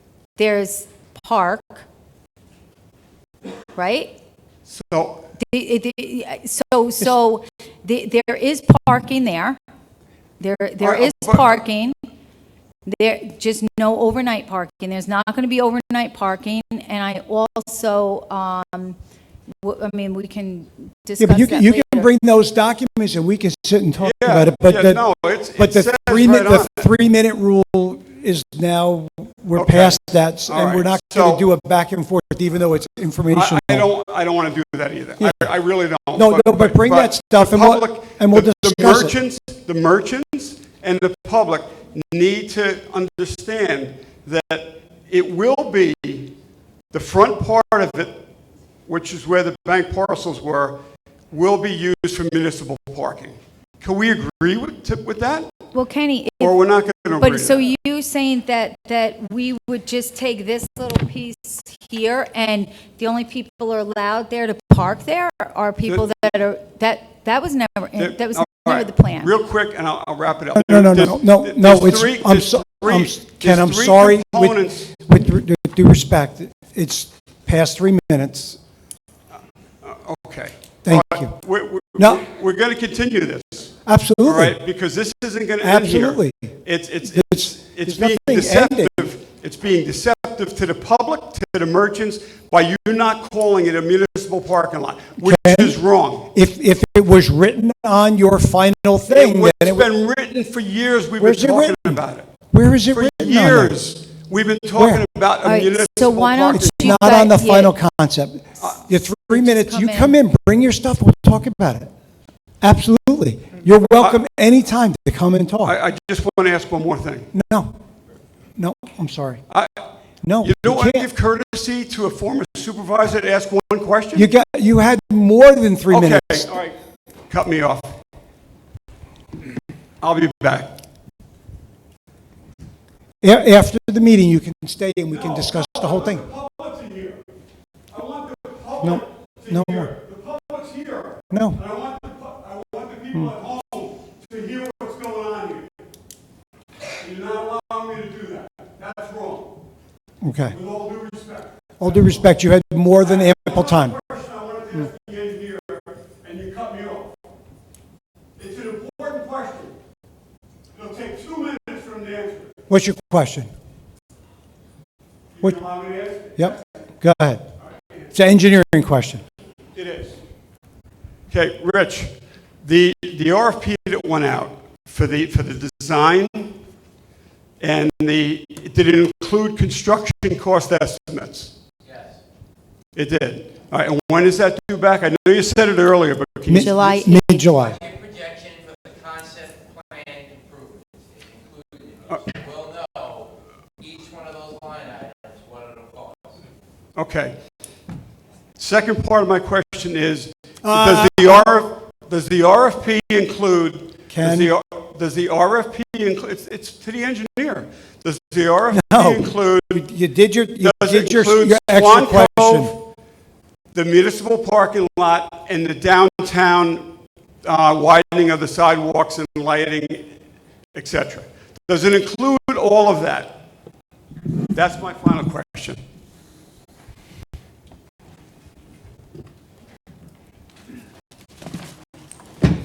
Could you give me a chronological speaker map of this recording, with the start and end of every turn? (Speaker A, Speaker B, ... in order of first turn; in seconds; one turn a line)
Speaker A: 0.4-1.9
Speaker A: 3.7-4.1
Speaker B: 4.7-5.3
Speaker A: 5.4-9.6
Speaker A: 10.4-12.0
Speaker B: 10.8-11.5
Speaker A: 12.9-19.0
Speaker A: 19.6-22.1
Speaker C: 21.2-25.0
Speaker B: 24.0-26.9
Speaker C: 25.6-33.9
Speaker B: 29.6-31.5
Speaker B: 33.3-46.3
Speaker C: 35.2-35.5
Speaker C: 36.1-39.1
Speaker B: 46.9-48.2
Speaker B: 48.9-55.5
Speaker A: 55.7-56.6
Speaker B: 56.4-57.7
Speaker A: 57.2-69.3
Speaker B: 65.9-66.2
Speaker B: 68.0-74.9
Speaker C: 70.5-78.6
Speaker B: 79.8-96.3
Speaker C: 80.8-81.3
Speaker C: 82.0-82.2
Speaker C: 83.9-84.6
Speaker C: 85.6-86.5
Speaker C: 87.0-89.1
Speaker C: 95.2-95.8
Speaker C: 96.3-99.9
Speaker B: 99.1-102.3
Speaker C: 101.2-103.8
Speaker B: 102.9-107.3
Speaker C: 104.8-105.0
Speaker A: 105.4-107.8
Speaker C: 106.5-111.9
Speaker A: 109.3-110.2
Speaker C: 112.6-115.8
Speaker B: 115.7-117.3
Speaker C: 117.3-117.8
Speaker C: 118.6-119.4
Speaker B: 119.5-119.9
Speaker C: 120.2-121.1
Speaker B: 120.4-124.3
Speaker C: 124.2-126.5
Speaker B: 125.9-126.8
Speaker B: 127.3-127.9
Speaker B: 130.0-130.7
Speaker C: 133.2-136.2
Speaker B: 135.1-137.2
Speaker B: 137.9-145.9
Speaker C: 138.8-139.9
Speaker C: 141.3-141.6
Speaker B: 147.0-149.6
Speaker C: 150.2-150.6
Speaker B: 150.5-152.2
Speaker C: 151.8-154.0
Speaker B: 153.0-157.2
Speaker B: 158.4-159.8
Speaker B: 160.7-162.6
Speaker C: 162.7-163.5
Speaker B: 165.4-166.6
Speaker C: 166.4-167.4
Speaker B: 167.6-168.1
Speaker C: 168.1-169.2
Speaker B: 169.7-170.2
Speaker B: 171.3-176.5
Speaker B: 177.6-181.5
Speaker B: 182.9-186.8
Speaker C: 186.5-187.8
Speaker A: 186.5-187.4
Speaker D: 187.4-196.4
Speaker B: 197.0-197.4
Speaker B: 198.6-209.8
Speaker C: 200.6-201.6
Speaker C: 204.1-204.5
Speaker C: 208.7-212.8
Speaker B: 210.6-212.8
Speaker B: 213.7-216.9
Speaker B: 217.4-220.1
Speaker B: 220.8-223.4
Speaker B: 224.5-225.8